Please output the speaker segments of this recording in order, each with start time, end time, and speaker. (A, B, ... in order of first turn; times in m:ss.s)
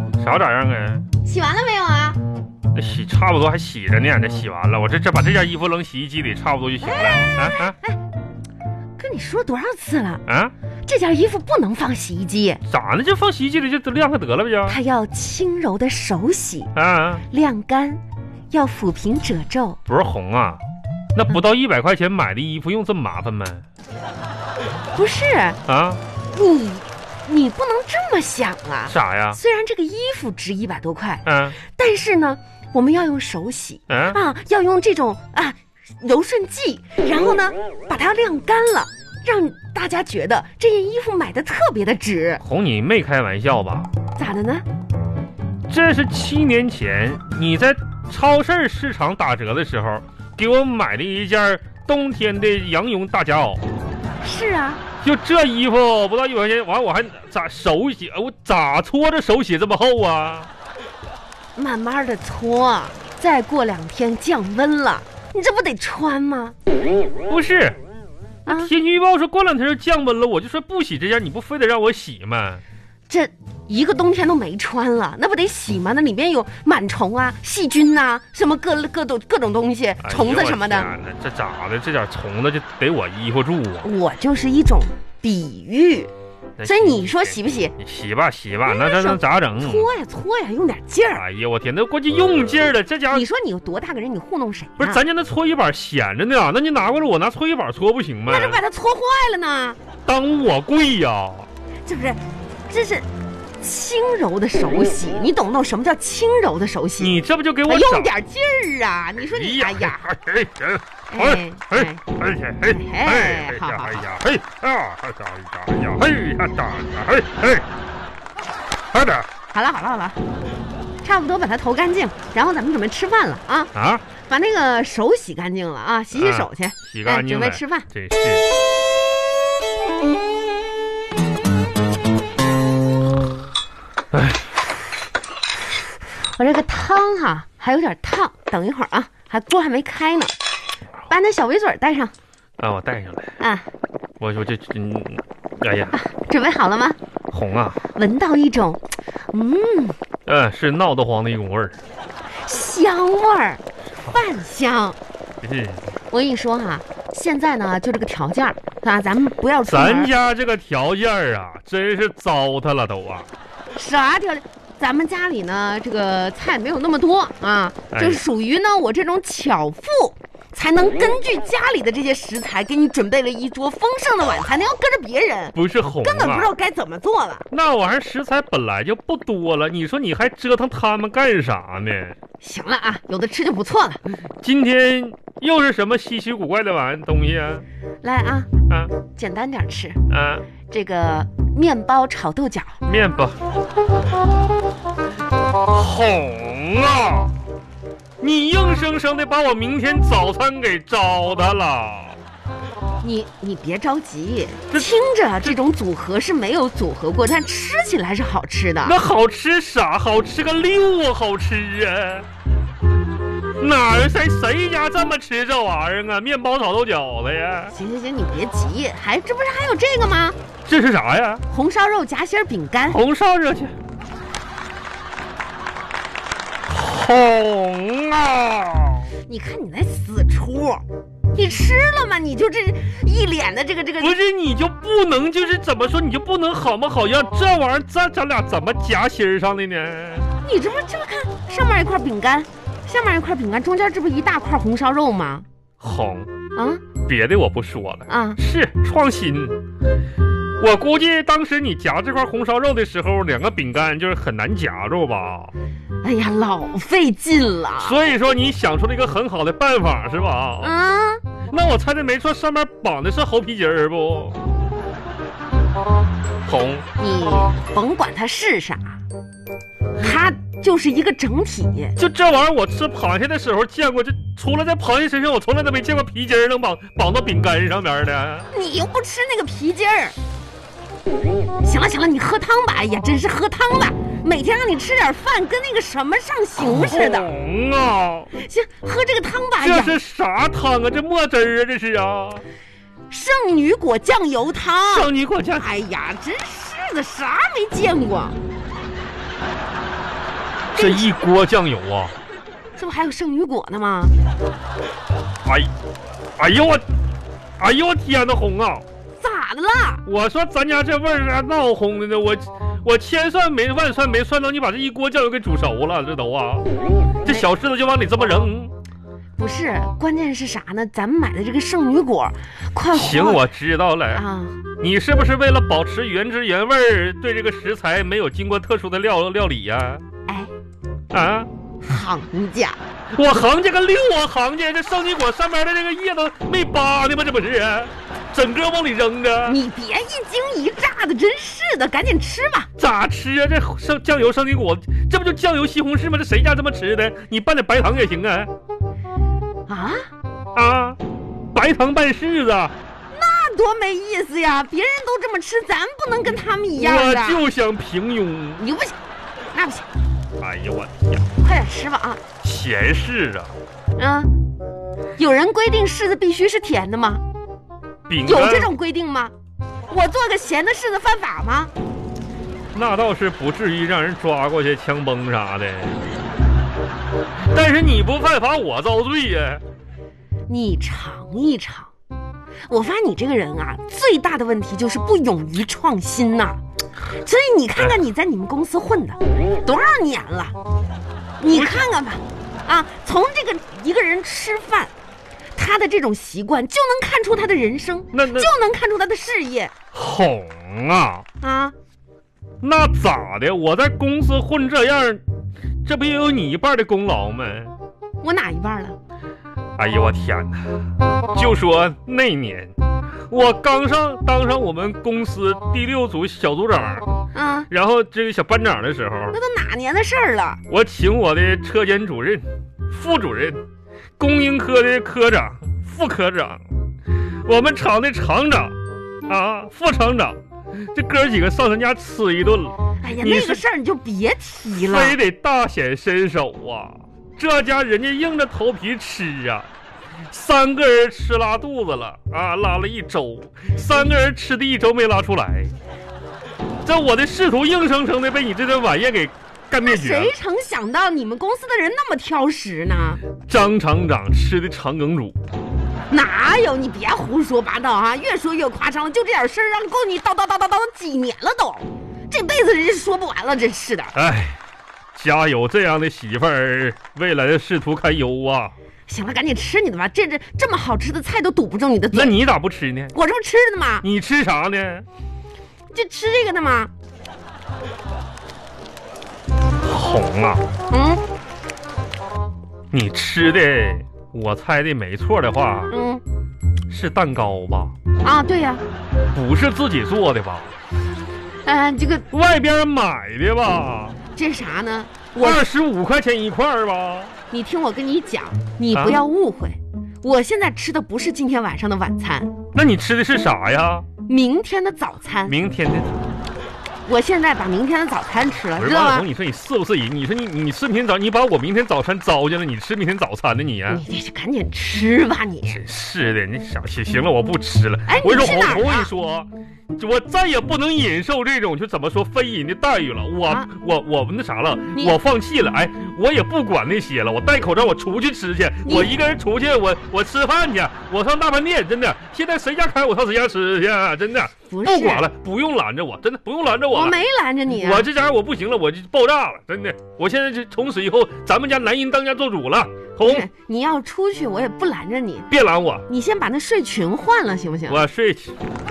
0:00.2-0:01.1 A
0:01.2-0:02.2 B
0:02.8-0:07.8 A
0:06.9-0:08.0 B
0:09.0-0:10.2 B
0:10.3-0:10.5 A
0:10.9-0:12.6 B
0:12.7-0:14.8 A
0:14.7-0:16.7 B
0:16.8-0:17.2 A
0:17.3-0:19.8 B
0:19.9-0:20.6 A
0:21.2-0:23.6 A
0:25.0-0:25.6 B
0:25.7-0:26.0 A
0:26.3-0:42.4 B
0:28.9-0:29.4 A
0:31.2-0:31.6 A
0:33.9-0:34.2 A
0:42.4-0:43.9 A
0:44.2-0:44.6 B
0:45.7-0:53.6 A
0:54.2-0:54.8 B
0:55.0-1:00.5 A
1:01.6-1:06.6 B
1:07.3-1:07.8 A
1:08.5-1:12.6 A
1:13.1-1:20.9 B
1:20.0-1:23.9 A
1:23.8-1:26.1 B
1:26.6-1:29.9 A
1:26.6-1:27.7 B
1:28.7-1:31.2 B
1:31.1-1:33.2 A
1:33.1-1:35.0 B
1:34.8-1:38.6 A
1:38.3-1:39.8 B
1:40.1-1:41.5 A
1:41.8-1:43.1 B
1:43.6-1:47.1 B
1:47.0-1:48.1 A
1:47.7-1:50.0 B
1:49.2-1:57.7 A
1:51.1-1:52.0 B
1:52.7-1:54.0 B
1:58.9-1:59.3 A
1:59.5-2:00.2 B
2:01.0-2:07.9 B
2:03.8-2:04.1 A
2:06.1-2:08.5 A
2:14.1-2:14.4 A
2:16.4-2:20.4 B
2:21.1-2:22.1 B
2:22.6-2:23.4 A
2:23.4-2:23.7 B
2:24.2-2:26.0 A
2:25.9-2:27.0 B
2:27.3-2:27.8 A
2:27.9-2:28.8 B
2:29.3-2:30.0 B
2:30.3-2:31.8 A
2:32.4-2:35.0 B
2:35.4-2:35.8 A
2:36.1-2:40.1 B
2:39.7-2:43.3 A
2:43.8-2:57.5 B
2:47.9-2:48.2 A
2:55.6-2:56.5 A
2:57.5-3:02.2 A
3:02.4-3:04.0 B
3:04.4-3:07.6 A
3:08.0-3:08.5 B
3:08.7-3:08.9 A
3:09.1-3:10.0 B
3:10.1-3:10.5 A
3:10.7-3:12.8 B
3:12.8-3:13.4 A
3:15.7-3:17.3 A
3:18.2-3:22.2 A
3:23.0-3:29.0 B
3:28.8-3:32.3 A
3:33.6-3:37.8 A
3:37.7-3:40.4 B
3:40.7-3:41.4 A
3:41.5-3:43.0 B
3:42.9-3:43.7 A
3:46.7-3:49.1 A
3:49.3-3:54.2 B
3:54.0-4:00.3 A
4:00.4-4:05.4 B
4:05.8-4:06.3 A
4:06.6-4:06.8 B
4:07.1-4:09.6 A
4:08.1-4:08.4 B
4:10.6-4:15.5 A
4:16.0-4:18.0 B
4:17.8-4:20.7 A
4:20.6-4:21.2 B
4:21.5-4:24.4 A
4:26.4-4:26.8 A
4:27.0-4:29.0 B
4:30.0-4:32.0 B
4:32.0-4:38.5 A
4:38.5-4:40.2 B
4:41.6-4:47.3 B
4:46.6-4:48.3 A
4:48.4-4:50.0 B
4:49.6-4:52.4 A
4:53.1-4:58.4 B
4:54.9-4:55.7 A
5:00.8-5:02.2 A
5:00.8-5:01.1 B
5:02.8-5:04.2 B
5:05.4-5:05.7 A
5:06.4-5:06.8 A
5:07.6-5:08.8 A
5:09.2-5:10.0 B
5:10.1-5:16.7 A
5:17.2-5:18.7 A
5:19.4-5:23.5 B
5:22.9-5:24.2 A
5:24.1-5:24.6 B
5:24.8-5:30.0 A
5:31.1-5:31.5 A
5:31.8-5:32.8 B
5:33.1-5:39.6 A
5:39.5-5:42.7 B
5:42.8-5:48.5 A
5:49.7-5:50.1 B
5:50.5-5:51.0 A
5:51.5-5:52.8 A
5:53.1-5:57.4 B
5:56.8-5:58.6 A
5:58.6-5:59.0 B
5:59.5-5:59.9 B
6:00.4-6:01.3 A
6:01.4-6:02.2 B
6:02.4-6:03.6 A
6:04.0-6:04.3 B
6:05.2-6:07.2 B
6:08.1-6:08.7 A
6:08.2-6:09.3 B
6:09.9-6:11.7 B
6:12.7-6:16.1 A
6:17.5-6:19.6 A
6:20.5-6:21.9 B
6:22.7-6:30.6 B
6:31.4-6:34.9 B
6:31.5-6:31.9 A
6:35.6-6:39.7 B
6:38.1-6:38.5 A
6:39.9-6:41.2 A
6:41.4-6:41.7 B
6:42.6-6:45.2 A
6:45.8-6:47.7 A
6:48.2-6:49.0 B
6:49.8-6:52.7 A
6:53.3-6:57.1 A
6:57.3-6:57.7 B
6:57.7-6:59.4 A
6:59.3-7:00.6 B
7:00.7-7:03.6 A
7:04.2-7:06.6 A
7:07.5-7:13.6 A
7:13.0-7:15.2 B
7:14.7-7:19.7 A
7:20.3-7:25.7 A
7:26.8-7:30.3 A
7:29.8-7:33.2 B
7:33.5-7:35.4 A
7:36.1-7:44.2 B
7:44.1-7:44.6 A
7:45.2-7:48.7 A
7:49.1-7:52.4 B
7:52.1-7:53.2 A
7:53.1-7:54.1 B
7:54.0-7:55.1 A
7:55.9-7:56.9 B
7:59.8-8:00.6 A
8:00.9-8:01.2 B
8:02.9-8:05.9 A
8:05.9-8:06.2 B
8:06.9-8:08.0 A
8:08.2-8:08.8 B
8:09.3-8:10.7 A
8:11.6-8:12.3 B
8:12.3-8:14.2 A
8:14.4-8:15.7 B
8:15.4-8:17.4 A
8:17.5-8:22.5 B
8:18.9-8:19.2 A
8:22.7-8:24.1 A
8:24.3-8:25.6 B
8:25.5-8:26.1 A
8:27.1-8:29.3 B
8:28.8-8:34.0 A
8:33.9-8:35.8 B
8:35.7-8:57.2 A
8:38.1-8:39.1 B
8:48.8-8:49.1 B
8:54.7-8:55.3 B
8:56.9-8:58.1 B
8:57.7-9:03.5 A
9:03.2-9:05.5 B
9:05.5-9:06.1 A
9:06.1-9:08.0 B
9:07.9-9:08.6 A